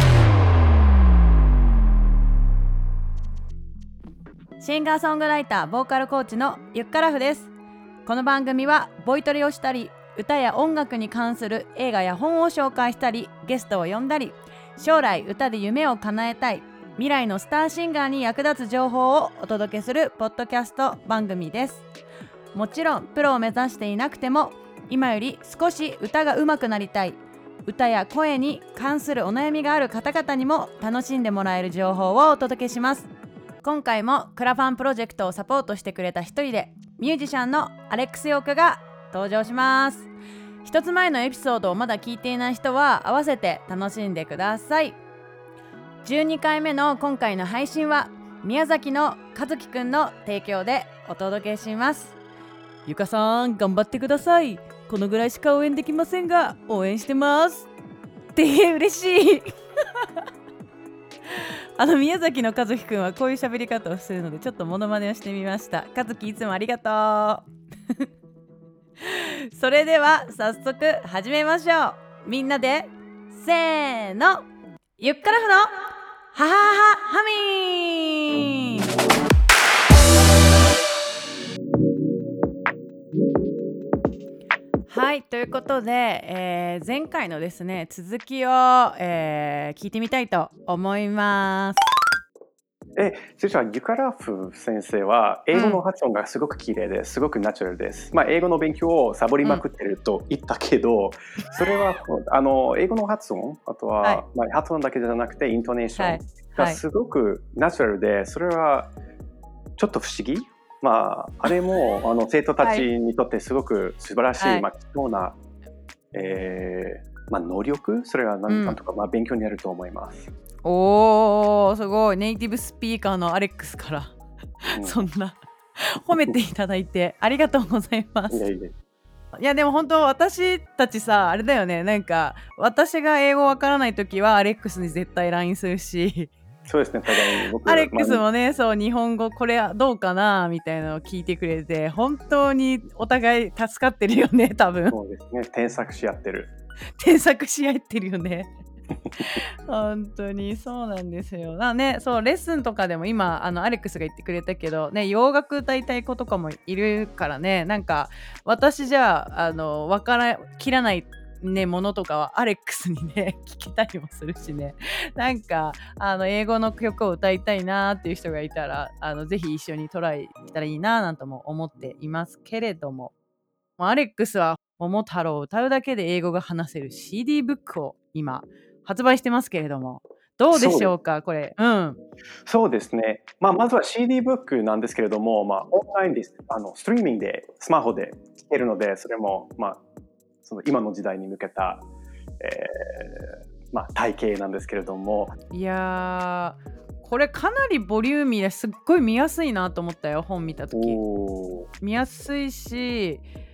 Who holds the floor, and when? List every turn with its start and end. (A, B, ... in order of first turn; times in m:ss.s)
0:04.6-0:07.5 A
0:08.0-0:21.8 A
0:22.5-0:33.1 A
0:33.6-0:40.1 A
0:40.6-0:45.0 A
0:46.0-0:52.1 A
0:52.8-0:57.7 A
0:58.3-0:59.5 A
1:01.3-1:08.0 A
1:09.0-1:14.4 A
1:15.0-1:15.7 A
1:16.3-1:18.9 A
1:24.9-1:31.8 A
1:33.0-1:48.9 B
1:35.5-1:35.8 A
1:46.0-1:46.8 A
1:49.8-1:55.4 B
1:52.6-1:52.9 A
1:54.4-1:54.7 A
1:56.1-2:00.3 B
1:58.5-1:58.8 A
2:00.6-2:08.5 A
2:04.7-2:05.0 B
2:08.3-2:08.7 B
2:09.3-2:16.3 A
2:16.7-2:18.2 B
2:17.1-2:25.0 A
2:24.9-2:26.5 B
2:27.0-2:28.5 A
2:29.2-2:53.1 A
2:53.8-3:02.0 A
3:00.5-3:00.9 B
3:02.4-3:09.8 B
3:10.4-3:11.8 B
3:12.4-3:15.4 B
3:15.5-3:21.0 A
3:20.7-3:21.7 B
3:21.8-3:23.2 A